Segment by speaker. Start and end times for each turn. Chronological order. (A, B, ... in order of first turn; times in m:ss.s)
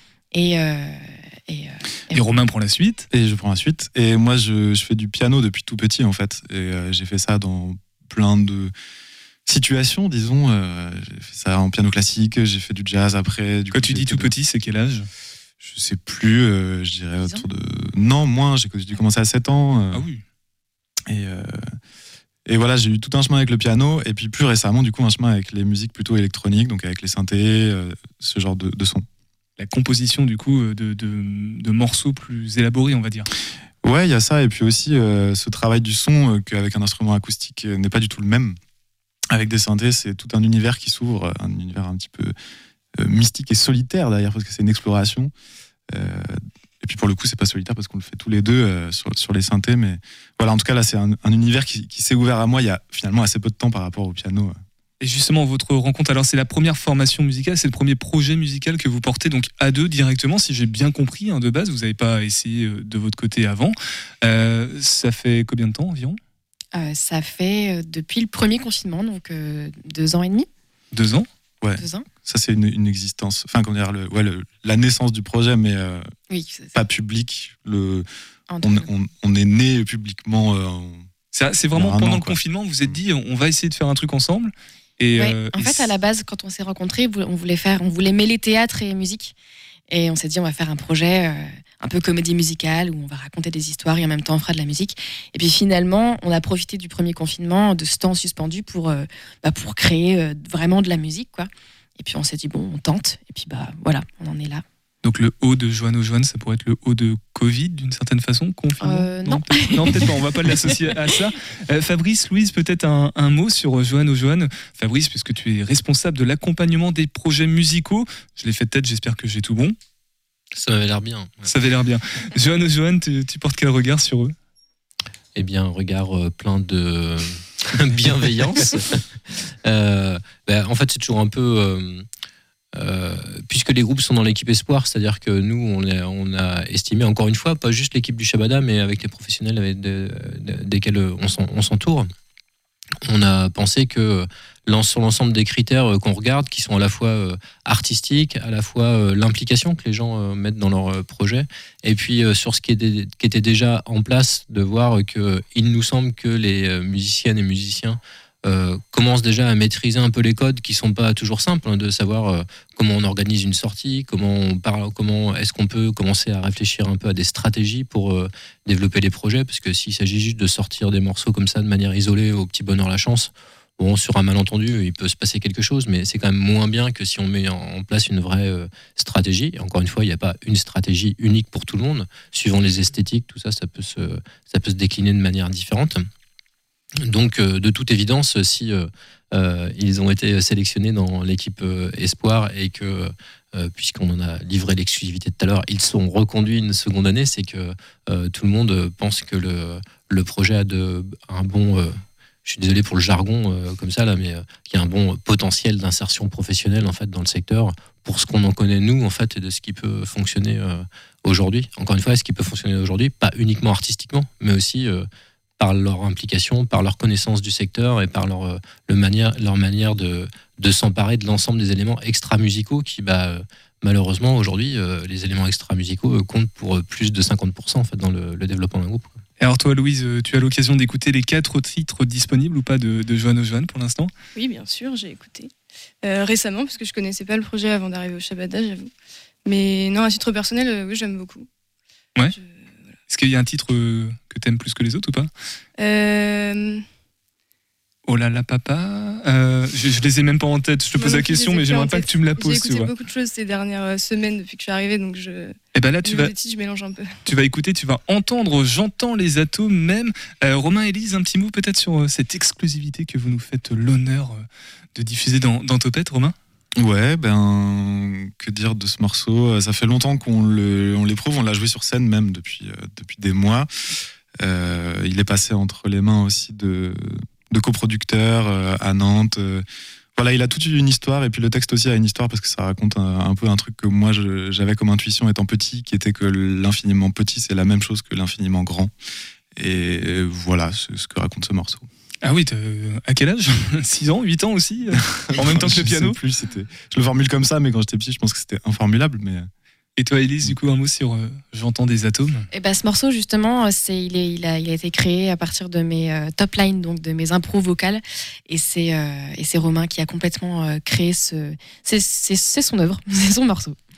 0:00.3-0:02.3 A
0:02.1-0:03.0 B
0:03.1-0:08.7 C
0:09.4-0:14.3 C
0:13.7-0:15.1 B
0:15.6-0:20.0 C
0:17.2-0:17.5 A
0:19.9-0:20.2 B
0:21.1-0:21.6 C
0:22.5-0:29.0 C
0:29.6-0:33.3 B
0:33.8-0:38.6 C
0:39.3-0:42.3 C
0:43.0-0:45.3 C
0:45.9-0:54.6 C
0:55.0-1:06.2 B
1:06.7-1:10.5 A
1:10.9-1:11.3 B
1:11.6-1:16.1 C
1:11.8-1:12.1 A
1:16.3-1:16.8 A
1:16.7-1:18.0 C
1:18.5-1:18.9 A
1:18.6-1:21.1 C
1:21.3-1:25.9 B
1:21.7-1:23.0 C
1:25.1-1:29.3 A
1:29.9-1:44.6 A
1:45.0-1:59.8 B
1:48.8-1:51.1 A
2:00.5-2:01.5 D
2:01.5-2:04.3 B
2:05.3-2:09.0 D
2:09.6-2:12.0 D
2:12.7-2:22.1 D
2:23.0-3:06.1 D
3:07.0-3:35.1 D
3:35.6-3:49.2 D
3:49.4-3:54.1 B
3:54.3-3:55.5 E
3:56.0-3:58.9 E
3:59.4-4:01.5 E
4:02.3-4:02.7 E
4:03.1-4:05.3 B
4:05.8-4:06.8 E
4:08.1-4:12.9 B
4:11.0-4:17.2 E
4:15.7-4:16.3 B
4:17.2-4:26.3 B
4:26.8-4:33.7 C
4:34.4-4:39.6 C
4:40.2-4:48.9 C
4:49.5-4:51.9 C
4:52.2-4:56.2 B
4:55.0-4:59.5 C
5:00.0-5:02.5 B
5:02.5-5:13.8 A